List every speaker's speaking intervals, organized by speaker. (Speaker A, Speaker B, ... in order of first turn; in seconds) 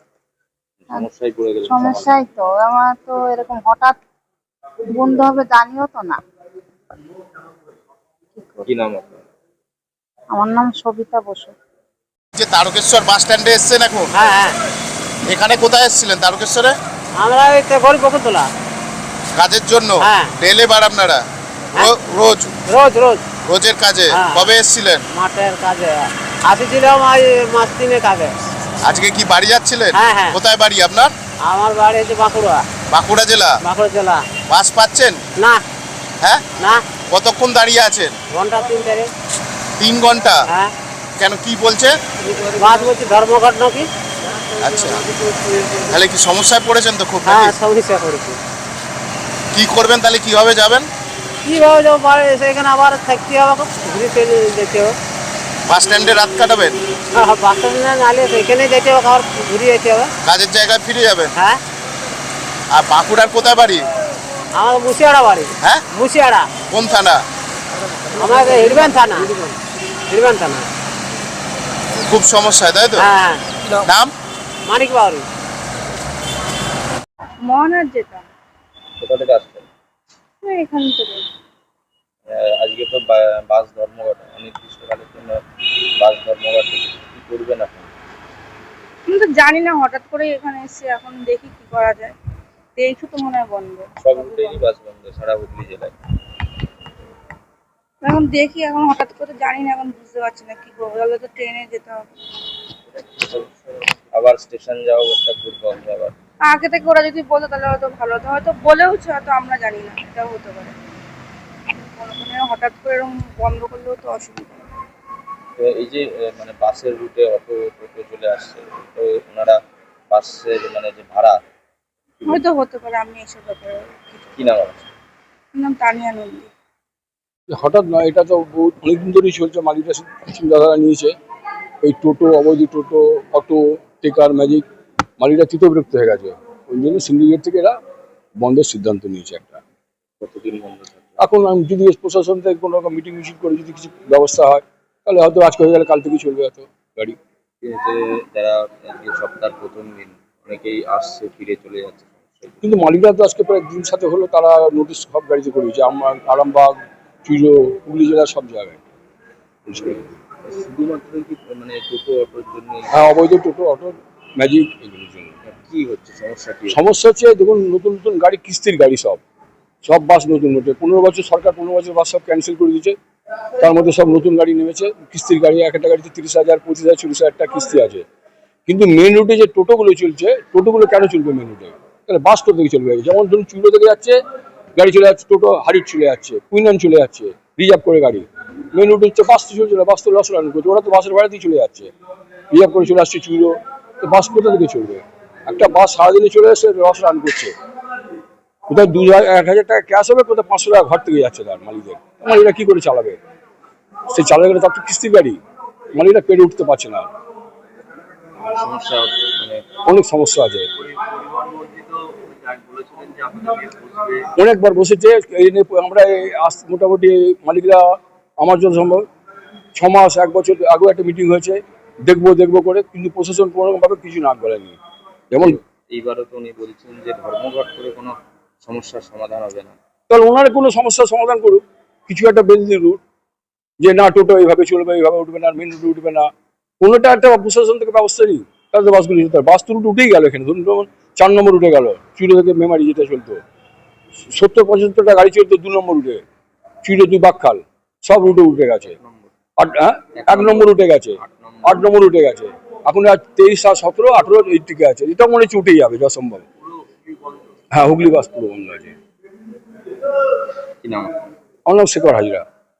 Speaker A: 0.8-2.2, 8.7-9.2, 79.0-79.7, 82.3-85.4, 86.0-87.9, 94.0-96.0, 102.9-103.6, 104.1-106.2, 115.6-119.6, 120.1-121.4, 124.4-124.9, 140.2-141.2, 147.6-152.8, 160.4-162.9, 165.4-166.8, 208.4-209.6, 210.8-214.3, 225.4-229.8, 249.0-249.3, 250.2-251.9, 260.8-261.2
Speaker B: 1.6-4.0, 4.9-6.2, 10.3-11.5, 12.3-14.1, 15.3-16.8, 19.4-21.2, 21.8-22.5, 23.5-25.0, 28.8-31.1, 32.9-33.6, 34.5-35.2, 37.1-38.1, 39.8-40.4, 41.2-42.0, 44.6-45.0, 45.9-47.5, 49.5-50.9, 55.7-56.8, 60.2-61.3, 62.7-63.9, 66.7-67.2, 72.1-73.1, 73.9-74.1
Speaker C: 14.1-14.6, 17.2-18.5, 20.0-20.3, 22.7-23.2, 24.1-24.5, 25.1-28.4, 29.9-30.4, 31.4-32.6, 33.6-34.3, 35.4-35.6, 36.6-36.9, 38.3-39.1, 40.5-40.7, 42.5-43.9, 47.2-48.4, 51.4-55.0, 57.1-60.1, 61.4-61.6, 64.5-66.5, 68.1-69.6, 70.1-70.7, 73.0-73.4, 74.7-75.3
Speaker D: 77.5-78.2, 80.4-81.2, 89.1-92.1, 92.8-93.9, 98.0-102.0, 106.5-110.7, 112.1-114.6, 122.3-124.3, 125.6-126.5
Speaker E: 127.5-131.2, 131.8-134.6, 135.2-137.8, 138.4-139.6, 141.2-147.2, 152.6-158.8, 159.7-160.0, 162.9-165.3, 166.7-169.2, 169.8-173.0, 173.6-178.0, 178.7-184.2, 184.8-191.9, 192.5-197.5, 198.7-203.2, 204.1-205.4, 206.0-207.1, 209.9-210.7, 214.4-219.1, 219.8-224.8, 225.3-225.6, 230.1-233.0, 233.8-236.3, 236.8-243.4, 244.3-246.2, 246.8-248.9, 249.6-256.4, 257.7-258.9, 261.7-262.4